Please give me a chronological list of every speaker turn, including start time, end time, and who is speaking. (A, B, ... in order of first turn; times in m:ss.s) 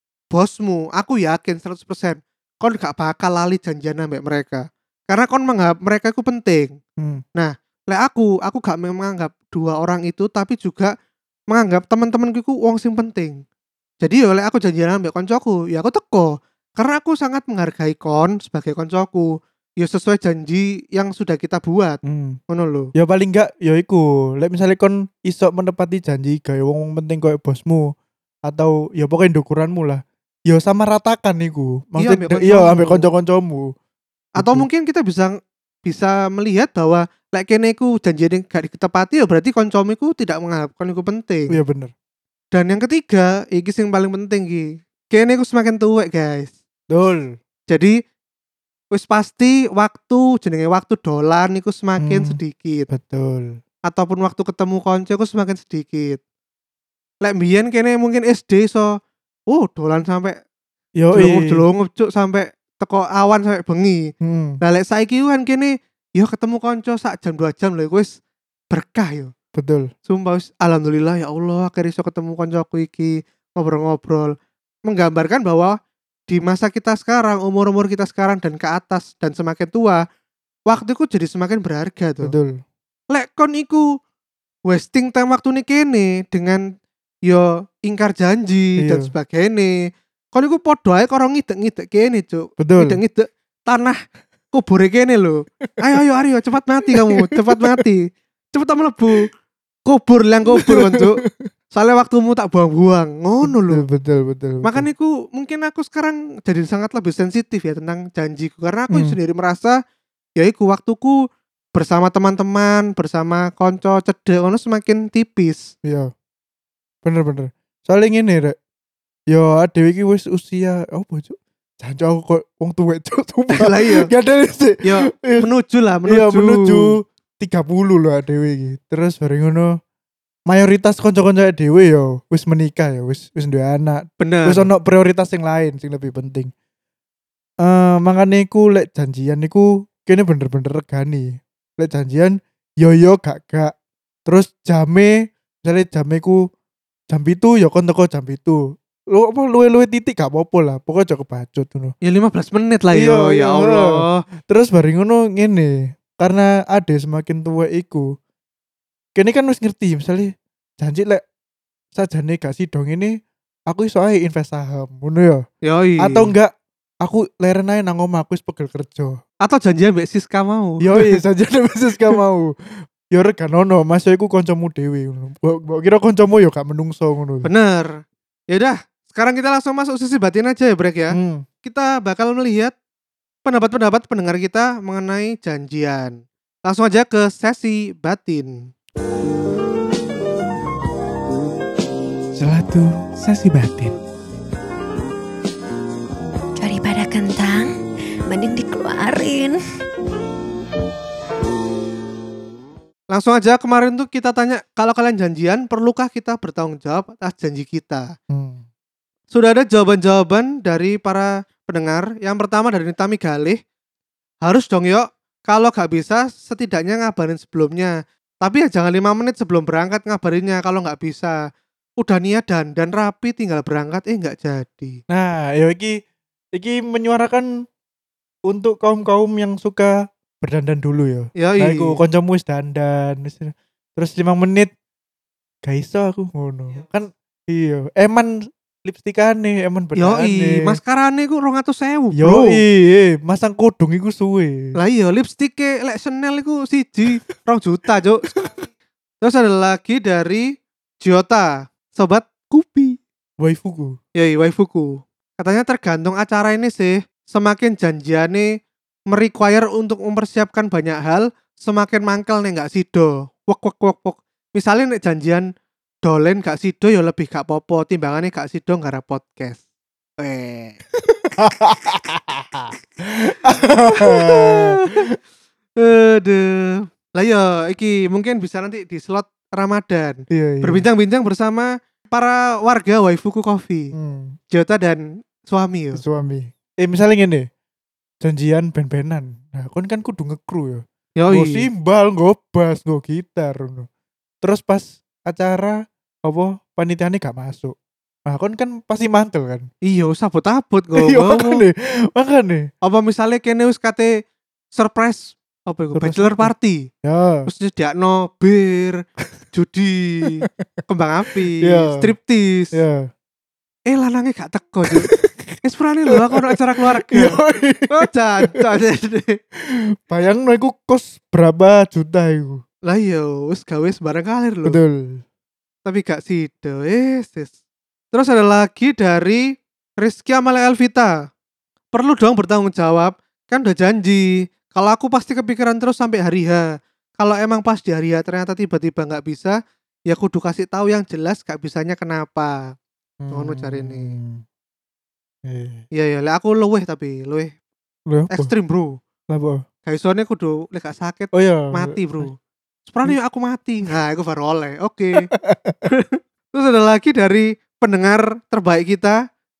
0:00.3-0:06.8 A
0:07.0-0:07.2 B
0:07.4-0:10.9 A
0:11.5-0:13.4 A
0:14.0-0:22.9 A
0:22.0-0:22.4 B
0:23.0-0:27.9 B
0:28.4-0:33.7 B
0:32.0-0:33.1 A
0:34.4-0:41.6 A
0:34.4-0:34.6 B
0:41.5-0:41.9 B
0:42.5-0:46.5 A
0:46.9-0:47.3 B
0:47.7-0:48.0 A
0:48.9-0:52.9 A
0:52.0-0:52.4 B
0:52.9-0:53.6 B
0:53.9-0:56.2 A
0:57.2-0:58.9 A
0:59.5-1:00.4 A
1:01.0-1:01.6 B
1:01.1-1:08.1 A
1:04.2-1:04.6 B
1:08.7-1:09.3 A
1:09.5-1:09.9 B
1:10.1-1:14.3 A
1:14.9-1:15.8 A
1:16.3-1:20.0 A
1:20.7-1:22.3 A
1:22.2-1:22.6 B
1:23.1-1:23.8 A
1:24.7-1:26.6 A
1:27.3-1:29.7 A
1:28.8-1:29.1 B
1:30.3-1:34.0 A
1:32.6-1:33.0 B
1:34.5-1:39.3 A
1:36.9-1:37.8 B
1:39.8-1:41.2 A
1:40.5-1:41.5 B
1:41.7-1:43.8 A
1:43.4-1:44.9 B
1:44.6-1:49.8 A
1:48.9-1:49.2 B
1:50.4-1:51.2 A
1:51.7-1:55.7 A
1:55.8-1:56.1 B
1:57.0-1:58.6 B
1:59.3-2:05.5 B
2:03.5-2:04.1 A
2:04.8-2:06.9 A
2:06.1-2:09.7 B
2:10.5-2:16.5 B
2:14.2-2:14.7 A
2:17.6-2:23.7 B
2:24.3-2:26.4 B
2:27.1-2:31.9 B
2:32.0-2:34.2 A
2:32.9-2:38.1 B
2:39.1-2:41.2 B
2:41.9-2:43.2 B
2:43.7-2:45.4 B
2:45.6-2:46.3 A
2:46.0-2:46.5 B
2:47.0-2:49.2 B
2:49.4-2:51.2 A
2:50.8-2:52.5 B
2:53.1-2:57.5 B
2:57.4-2:57.9 A
2:58.5-3:02.7 A
3:01.1-3:01.4 B
3:03.4-3:08.7 A
3:12.3-3:14.0 B
3:16.6-3:17.7 C
3:18.3-3:19.6 C
3:23.1-3:28.1 A
3:28.3-3:28.6 B
3:29.3-3:33.6 A
3:34.4-3:41.4 A
3:42.0-3:45.0 A
3:45.1-3:46.0 B
3:46.5-3:47.5 B
3:48.5-3:54.7 B
3:51.4-3:52.0 A
3:55.6-4:00.8 B
4:00.0-4:02.6 A
4:02.2-4:04.7 B
4:04.8-4:08.4 A
4:08.3-4:08.6 B
4:09.2-4:13.0 A
4:13.4-4:14.0 B
4:14.2-4:18.5 A
4:19.1-4:25.5 A
4:26.0-4:29.6 A
4:30.2-4:30.8 A
4:31.4-4:35.1 B
4:33.6-4:35.0 A
4:35.8-4:43.9 A
4:40.3-4:40.8 B
4:43.9-4:44.4 B
4:44.5-4:46.0 A
4:45.9-4:47.5 B
4:48.2-4:53.9 B
4:51.2-4:51.7 A
4:54.4-4:57.7 B
4:58.2-4:59.7 B
4:59.8-5:01.6 A
5:01.0-5:02.7 B
5:02.8-5:04.1 A
5:04.7-5:06.9 A
5:06.0-5:06.5 B
5:07.0-5:07.5 B
5:07.5-5:09.0 A
5:09.5-5:12.8 A
5:11.6-5:12.1 B
5:12.7-5:13.1 B
5:13.9-5:15.1 A
5:15.0-5:15.5 B
5:15.6-5:17.4 A
5:16.1-5:18.7 B
5:17.9-5:19.4 A
5:20.1-5:22.6 B
5:22.9-5:24.8 A
5:24.6-5:25.2 B
5:25.8-5:27.5 A
5:28.1-5:29.4 A
5:30.0-5:31.1 A
5:31.9-5:36.6 A
5:37.2-5:39.6 A
5:40.1-5:42.7 A
5:43.2-5:44.4 B
5:43.3-5:44.1 A
5:45.4-5:45.8 B
5:45.9-5:47.5 A
5:48.1-5:48.5 B
5:48.3-5:49.0 A
5:49.3-5:49.6 B
5:49.8-5:52.3 A
5:51.3-5:52.3 B
5:52.8-5:55.3 A
5:55.3-5:55.8 B
5:55.9-5:59.2 A